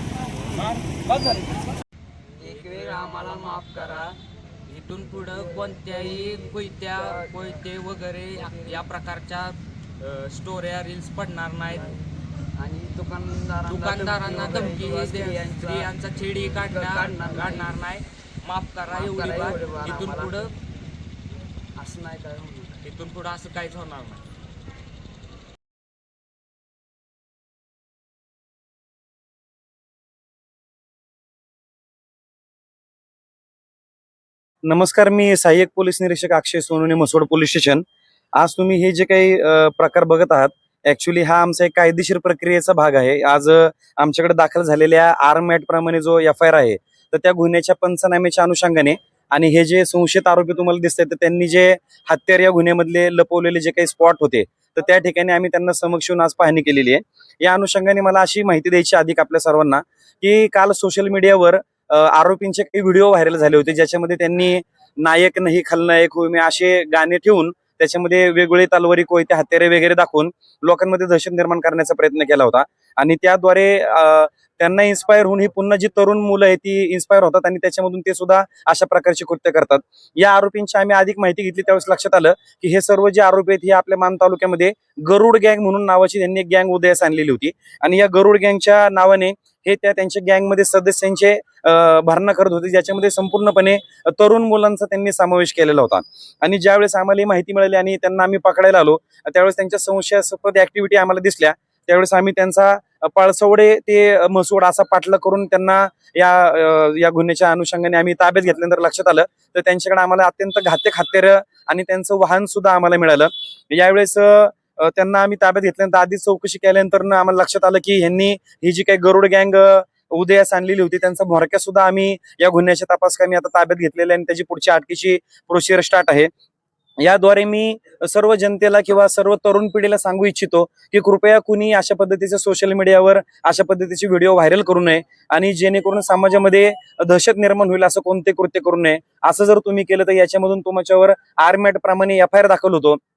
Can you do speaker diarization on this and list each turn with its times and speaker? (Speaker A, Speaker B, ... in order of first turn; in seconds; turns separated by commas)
Speaker A: 0.6-1.6, Speaker B: 2.4-4.2, Speaker C: 2.4-3.5, Speaker C: 4.7-12.0, Speaker B: 7.0-7.3, Speaker B: 12.6-15.9, Speaker C: 13.7-20.5, Speaker B: 16.6-17.8, Speaker B: 18.9-20.4, Speaker B: 21.8-22.8, Speaker C: 22.8-24.2, Speaker A: 34.6-126.3, Speaker A: 127.0-143.0